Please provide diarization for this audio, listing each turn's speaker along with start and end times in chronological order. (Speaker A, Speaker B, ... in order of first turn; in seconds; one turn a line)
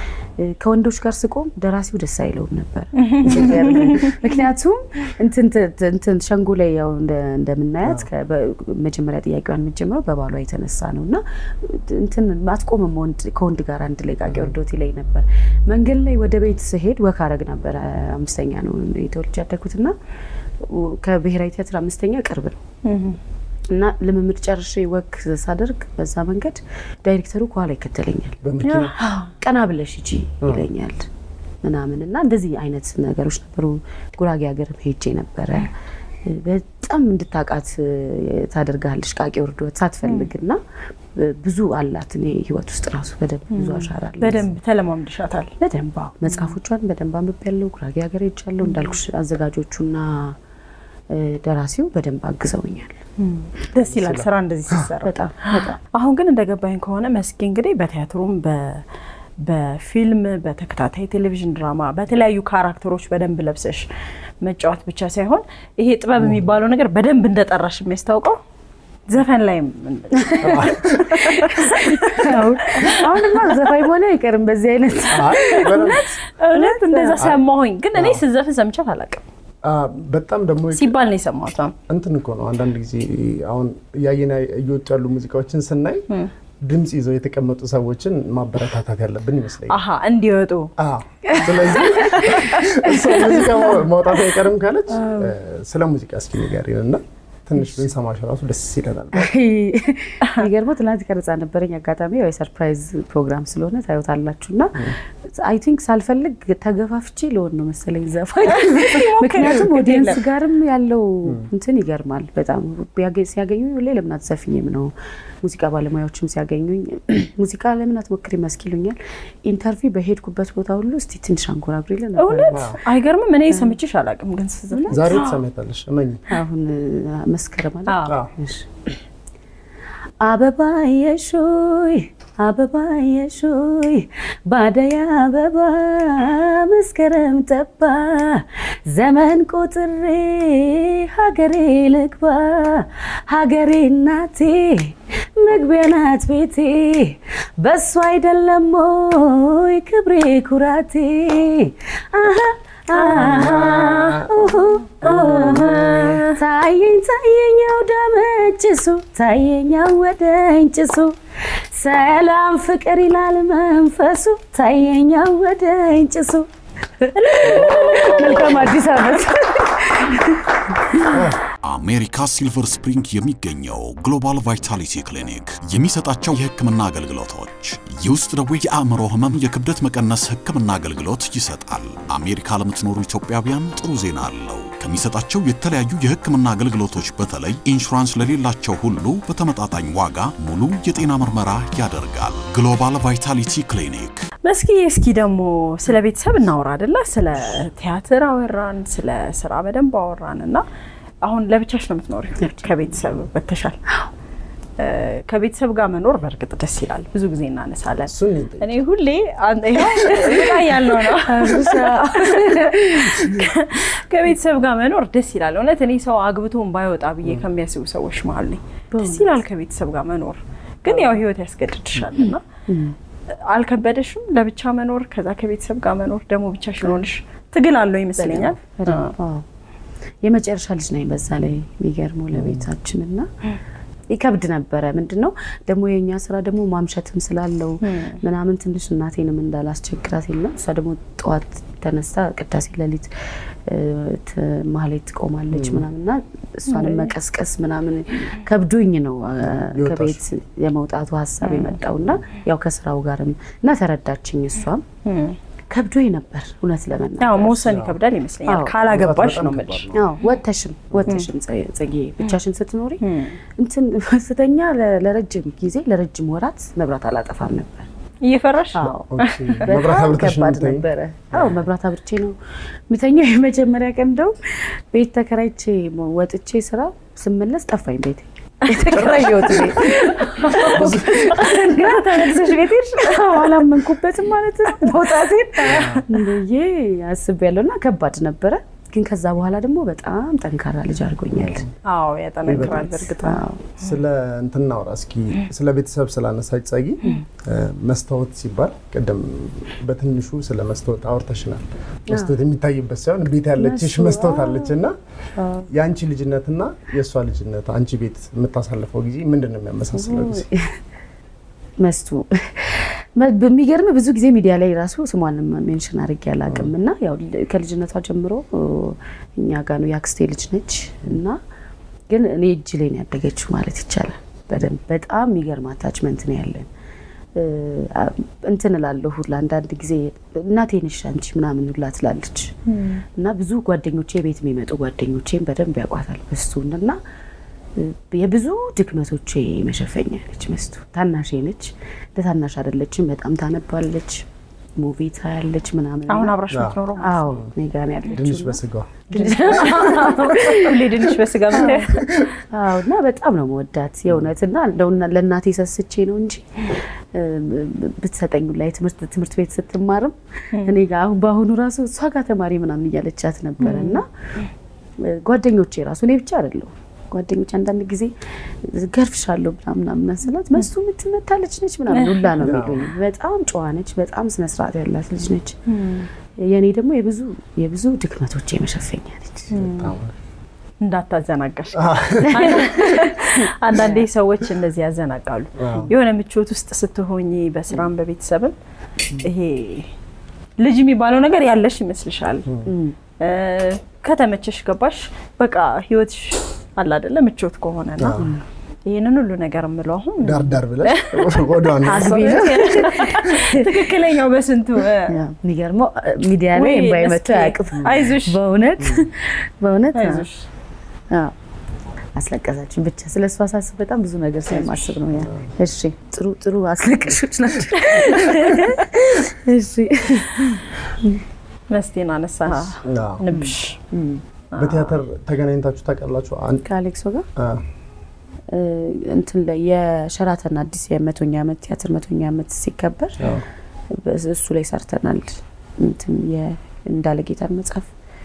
Speaker A: 0.4-19.9
Speaker B: 3.0-4.1
Speaker C: 3.3-3.5
Speaker C: 14.2-14.5
Speaker A: 20.6-22.6
Speaker B: 22.8-23.2
Speaker A: 23.7-28.4
Speaker C: 28.4-29.0
Speaker B: 28.6-29.3
Speaker A: 29.0-31.1
Speaker C: 30.4-30.7
Speaker A: 31.6-35.7
Speaker A: 36.2-40.6
Speaker B: 40.0-40.3
Speaker A: 41.1-44.5
Speaker B: 43.5-45.5
Speaker A: 45.6-50.4
Speaker B: 48.6-48.9
Speaker A: 51.1-53.0
Speaker B: 53.2-58.8
Speaker C: 53.9-54.9
Speaker A: 55.0-55.8
Speaker B: 59.4-63.9
Speaker B: 64.4-68.4
Speaker C: 66.2-66.5
Speaker B: 69.1-73.0
Speaker A: 70.2-70.6
Speaker C: 70.4-71.5
Speaker A: 71.6-75.9
Speaker C: 75.1-76.1
Speaker B: 75.3-79.2
Speaker A: 76.5-77.2
Speaker C: 77.9-78.2
Speaker C: 79.6-80.9
Speaker B: 80.7-81.7
Speaker C: 81.9-86.1
Speaker C: 86.6-89.8
Speaker B: 89.7-90.7
Speaker C: 90.8-99.3
Speaker A: 91.3-93.8
Speaker B: 91.8-92.6
Speaker A: 94.9-95.3
Speaker A: 99.1-122.7
Speaker B: 108.5-110.2
Speaker B: 122.2-125.4
Speaker C: 122.5-122.8
Speaker A: 124.7-125.2
Speaker C: 124.9-126.2
Speaker A: 126.3-128.9
Speaker B: 127.9-128.2
Speaker C: 128.0-128.3
Speaker A: 130.2-161.2
Speaker B: 152.9-154.2
Speaker C: 153.1-154.3
Speaker B: 155.0-156.3
Speaker C: 155.0-156.2
Speaker A: 161.7-166.5
Speaker A: 167.0-171.2
Speaker B: 167.2-168.8
Speaker C: 167.4-168.8
Speaker C: 171.1-171.4
Speaker D: 171.6-194.2
Speaker B: 194.4-200.6
Speaker B: 201.2-203.8
Speaker A: 202.4-202.8
Speaker B: 204.8-222.4
Speaker C: 208.1-208.8
Speaker C: 210.1-210.5
Speaker A: 211.2-213.5
Speaker A: 218.9-219.4
Speaker A: 222.2-222.9
Speaker B: 223.4-229.1
Speaker A: 228.2-229.4
Speaker A: 230.2-233.3
Speaker C: 232.3-232.6
Speaker A: 234.1-243.1
Speaker B: 237.8-238.2
Speaker A: 243.7-254.8
Speaker C: 245.5-245.8
Speaker B: 246.7-247.1
Speaker C: 249.4-250.2
Speaker B: 251.4-251.7
Speaker B: 255.0-255.4
Speaker A: 255.7-257.7
Speaker B: 257.2-259.9
Speaker C: 257.6-258.0
Speaker A: 258.4-258.8
Speaker C: 258.8-260.1
Speaker A: 259.9-263.0
Speaker B: 263.0-263.4
Speaker A: 263.6-267.9
Speaker B: 268.2-269.6
Speaker A: 268.7-269.1
Speaker C: 268.8-271.6
Speaker A: 269.6-272.4
Speaker A: 272.9-291.6
Speaker B: 278.8-283.6
Speaker C: 278.9-279.6
Speaker C: 280.6-281.4
Speaker B: 285.6-286.1
Speaker C: 285.7-286.0
Speaker C: 291.3-291.7
Speaker B: 291.9-293.4
Speaker C: 292.4-293.1
Speaker A: 292.5-293.7
Speaker C: 293.8-304.9
Speaker A: 303.6-304.7
Speaker A: 305.4-305.7
Speaker C: 305.7-310.5
Speaker A: 309.9-310.7
Speaker A: 311.8-321.4
Speaker C: 316.5-316.7
Speaker A: 322.1-326.7
Speaker A: 327.4-332.6
Speaker B: 332.7-333.0
Speaker A: 333.1-337.0
Speaker A: 337.8-344.2
Speaker A: 344.8-346.4
Speaker B: 346.1-347.3
Speaker C: 346.5-346.8
Speaker A: 347.0-350.8
Speaker C: 348.1-350.2
Speaker B: 349.1-352.0
Speaker A: 351.5-364.0
Speaker B: 363.6-364.0
Speaker A: 365.0-368.1
Speaker A: 368.6-375.6
Speaker B: 371.9-372.3
Speaker C: 372.4-372.9
Speaker B: 375.7-376.1
Speaker A: 376.4-379.5
Speaker B: 379.5-379.9
Speaker C: 379.5-380.1
Speaker B: 380.8-388.5
Speaker C: 381.7-382.6
Speaker A: 382.2-384.0
Speaker C: 385.6-385.9
Speaker B: 389.2-389.9
Speaker B: 390.6-392.5
Speaker A: 392.6-392.9
Speaker B: 393.2-398.2
Speaker C: 398.0-398.3
Speaker A: 398.2-398.4
Speaker B: 398.9-405.1
Speaker C: 400.2-402.6
Speaker A: 401.9-403.9
Speaker A: 405.1-410.3
Speaker B: 406.5-408.4
Speaker C: 407.8-408.1
Speaker B: 409.9-410.4
Speaker A: 412.1-421.2
Speaker C: 415.1-415.5
Speaker B: 417.8-418.6
Speaker B: 421.7-423.8
Speaker C: 422.5-423.2
Speaker A: 423.3-424.2
Speaker B: 424.5-425.0
Speaker C: 424.6-426.7
Speaker A: 426.7-427.2
Speaker C: 427.4-427.6
Speaker A: 428.5-433.3
Speaker C: 433.2-433.4
Speaker A: 433.9-437.9